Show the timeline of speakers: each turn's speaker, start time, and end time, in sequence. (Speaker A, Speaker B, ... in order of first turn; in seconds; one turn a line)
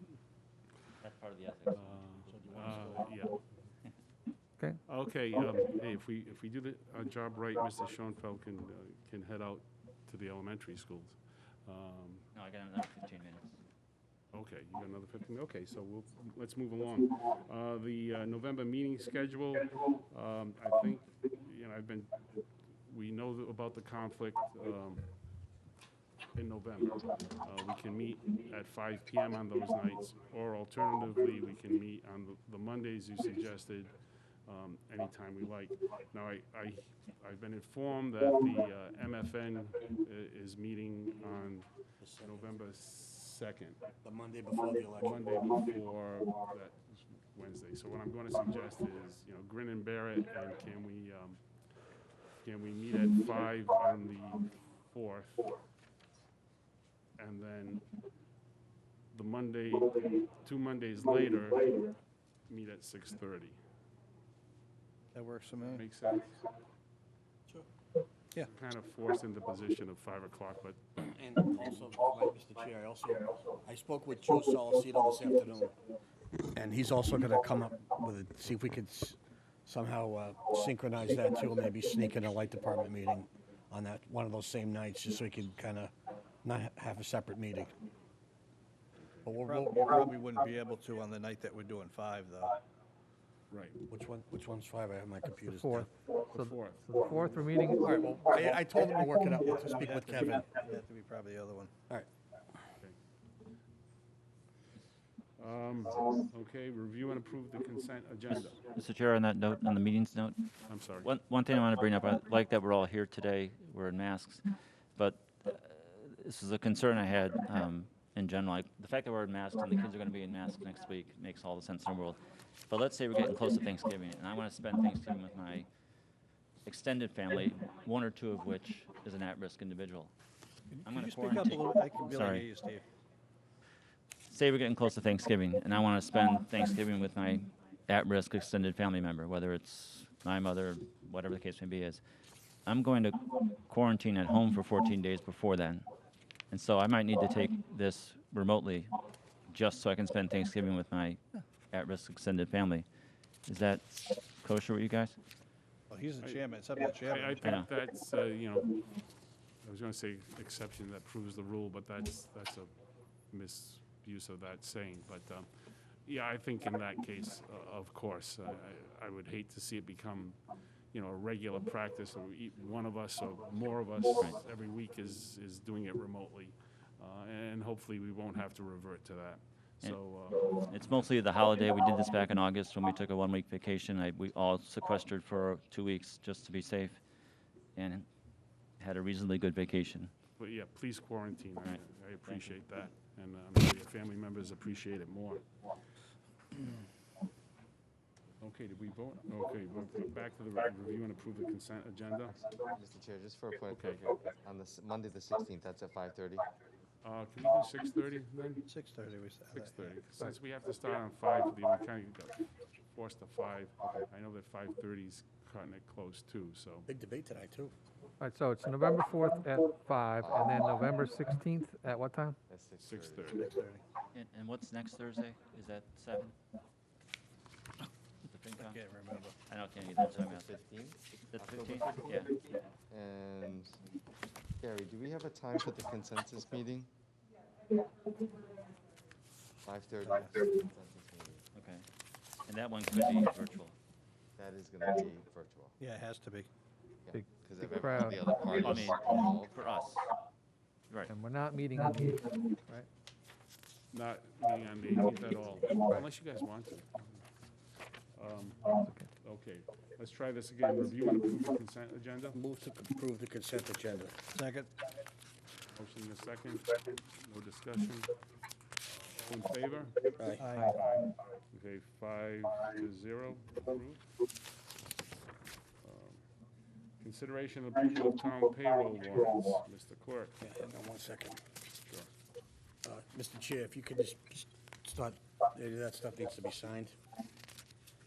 Speaker A: 1.0-3.0
Speaker B: 1.7-3.4
Speaker C: 2.3-3.0
Speaker B: 4.8-12.3
Speaker A: 12.3-13.6
Speaker B: 14.3-22.2
Speaker B: 22.9-25.1
Speaker B: 26.3-33.9
Speaker B: 34.5-41.7
Speaker C: 42.0-42.5
Speaker B: 42.2-43.8
Speaker C: 44.0-45.2
Speaker B: 45.0-51.4
Speaker B: 52.4-55.6
Speaker B: 57.2-57.8
Speaker B: 59.1-61.9
Speaker B: 62.5-63.6
Speaker D: 65.1-65.8
Speaker B: 65.6-66.5
Speaker B: 68.4-71.1
Speaker C: 71.0-75.8
Speaker C: 76.5-85.9
Speaker C: 86.4-87.7
Speaker C: 89.2-90.0
Speaker D: 89.4-92.6
Speaker B: 93.5-93.8
Speaker C: 93.9-95.9
Speaker E: 95.4-98.2
Speaker B: 96.3-97.5
Speaker C: 97.8-100.5
Speaker D: 99.8-101.7
Speaker B: 105.4-108.6
Speaker A: 108.6-110.5
Speaker B: 110.7-111.1
Speaker A: 111.0-125.7
Speaker A: 126.6-130.1
Speaker D: 130.7-132.8
Speaker A: 130.8-132.5
Speaker A: 134.3-142.0
Speaker A: 142.7-145.8
Speaker A: 146.5-148.9
Speaker A: 149.5-152.8
Speaker A: 153.5-155.2
Speaker D: 155.9-157.5
Speaker B: 157.0-158.8
Speaker A: 157.4-157.7
Speaker B: 159.6-162.7
Speaker B: 163.3-165.5
Speaker B: 166.0-170.4
Speaker B: 170.9-180.7
Speaker A: 180.7-187.0
Speaker A: 187.8-188.1
Speaker A: 188.8-190.1
Speaker B: 190.4-195.4
Speaker A: 191.6-192.6
Speaker B: 198.4-202.4
Speaker F: 202.7-206.5
Speaker B: 203.7-204.1
Speaker B: 207.0-208.7
Speaker D: 208.7-209.9
Speaker B: 209.5-216.9
Speaker C: 216.9-217.7
Speaker E: 218.2-222.4
Speaker F: 220.2-220.6
Speaker F: 222.5-223.4
Speaker B: 222.8-223.5
Speaker D: 223.4-223.8
Speaker A: 224.1-226.3
Speaker A: 228.2-228.8
Speaker D: 228.5-229.3
Speaker A: 229.5-230.5
Speaker F: 230.0-232.3
Speaker A: 231.3-232.4
Speaker F: 232.9-233.8
Speaker F: 234.6-236.9
Speaker F: 239.6-241.4
Speaker D: 240.0-240.4
Speaker A: 241.5-241.8
Speaker A: 242.4-243.7
Speaker F: 244.4-245.8
Speaker D: 245.8-246.5
Speaker F: 247.1-249.6
Speaker E: 247.1-248.4
Speaker A: 248.6-250.1
Speaker E: 251.1-252.9
Speaker B: 253.9-257.0
Speaker B: 258.1-262.4
Speaker C: 262.3-264.2
Speaker D: 264.3-264.7
Speaker B: 265.7-268.1
Speaker B: 268.8-274.0
Speaker C: 270.2-270.4
Speaker D: 270.4-270.8
Speaker B: 275.8-276.2
Speaker B: 277.0-280.4
Speaker C: 280.4-281.4
Speaker C: 282.8-286.9